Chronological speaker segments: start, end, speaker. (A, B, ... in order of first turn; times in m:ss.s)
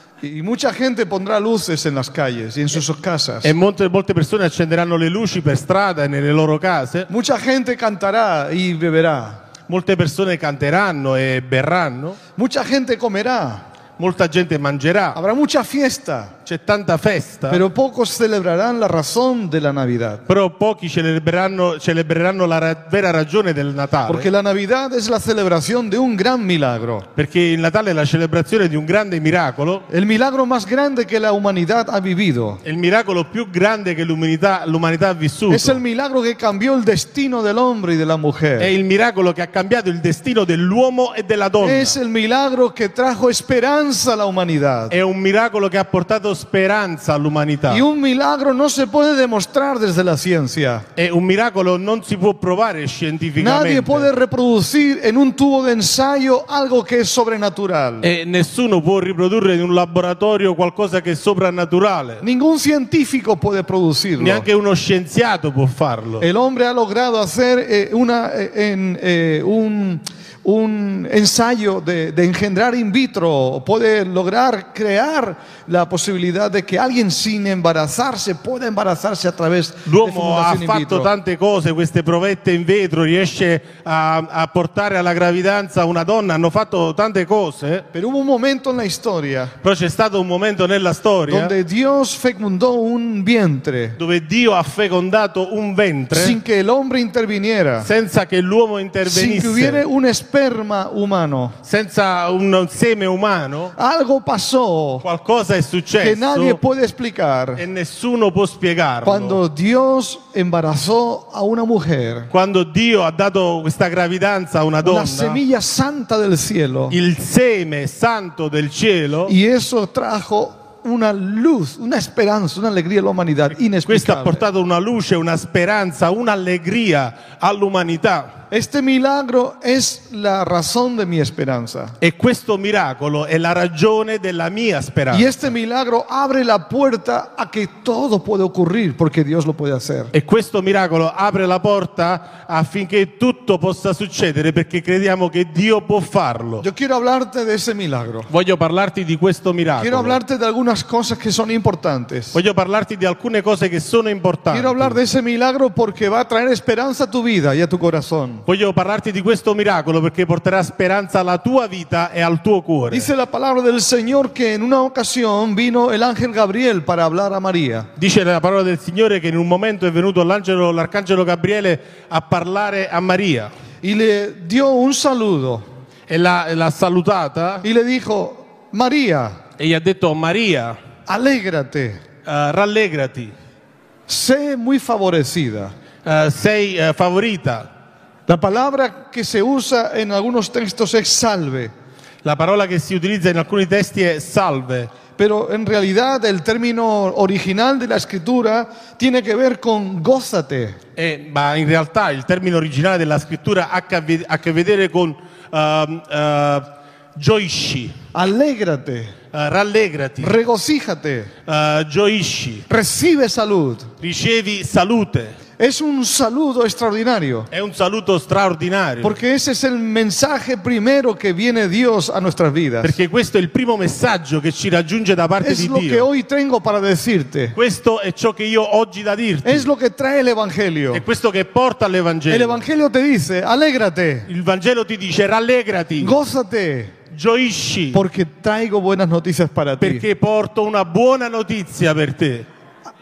0:00.2-0:03.5 A
0:03.4-0:07.1 B
0:07.1-0:09.4 A
0:09.7-0:12.2 B
0:12.4-0:13.7 A
0:14.0-0:15.2 B
0:15.1-0:16.4 A
0:16.5-0:17.6 B
0:17.5-0:20.2 A
0:20.3-0:24.3 B
0:24.1-0:27.1 A
0:27.2-0:29.9 B
0:29.9-0:32.6 A
0:32.6-0:35.8 B
0:35.5-0:38.7 A
0:38.6-0:42.0 B
0:41.6-0:45.0 A
0:44.9-0:47.8 B
0:47.7-0:50.9 A
0:51.0-0:54.1 B
0:53.4-0:58.1 A
0:58.0-1:02.2 B
1:02.2-1:04.5 A
1:04.2-1:06.3 B
1:06.2-1:21.1 A
1:19.9-1:27.9 B
1:27.9-1:29.6 A
1:29.6-1:31.6 B
1:31.3-1:34.0 A
1:34.0-1:36.4 B
1:36.1-1:37.9 A
1:37.8-1:39.8 B
1:39.0-1:41.6 A
1:41.6-1:43.8 B
1:43.8-1:45.1 A
1:45.0-1:46.6 B
1:46.0-1:47.7 A
1:47.6-1:49.4 B
1:49.0-1:52.3 A
1:52.3-1:55.4 B
1:54.8-1:57.0 A
1:56.9-1:59.3 B
1:59.3-2:04.5 A
2:03.9-2:08.4 B
2:08.5-2:12.0 A
2:12.0-2:15.4 B
2:15.1-2:20.1 A
2:20.1-2:26.6 B
2:26.6-2:28.3 A
2:28.3-2:30.2 B
2:29.8-2:32.4 A
2:32.3-2:35.0 B
2:34.5-2:38.4 A
2:38.5-2:43.1 B
2:42.9-2:47.9 A
2:48.0-2:53.5 B
2:53.8-2:55.7 A
2:56.1-2:57.6 B
2:57.6-2:59.4 A
2:59.6-3:00.8 B
3:01.1-3:02.0 A
3:02.2-3:03.3 B
3:04.1-3:05.8 A
3:06.0-3:07.7 B
3:08.3-3:11.7 A
3:12.2-3:14.9 B
3:15.2-3:20.8 A
3:21.0-3:28.0 B
3:28.1-3:29.2 A
3:29.3-3:30.4 B
3:30.2-3:31.3 A
3:31.5-3:32.7 B
3:32.7-3:33.9 A
3:34.0-3:35.4 B
3:35.6-3:37.5 A
3:37.5-3:39.2 B
3:39.0-3:43.0 A
3:42.8-3:46.1 B
3:45.4-3:47.6 A
3:47.6-3:49.7 B
3:49.4-3:51.0 A
3:50.9-3:52.6 B
3:52.3-3:54.3 A
3:54.3-3:56.2 B
3:56.0-3:57.0 A
3:57.1-3:58.0 B
3:57.9-4:00.1 A
3:59.8-4:02.5 B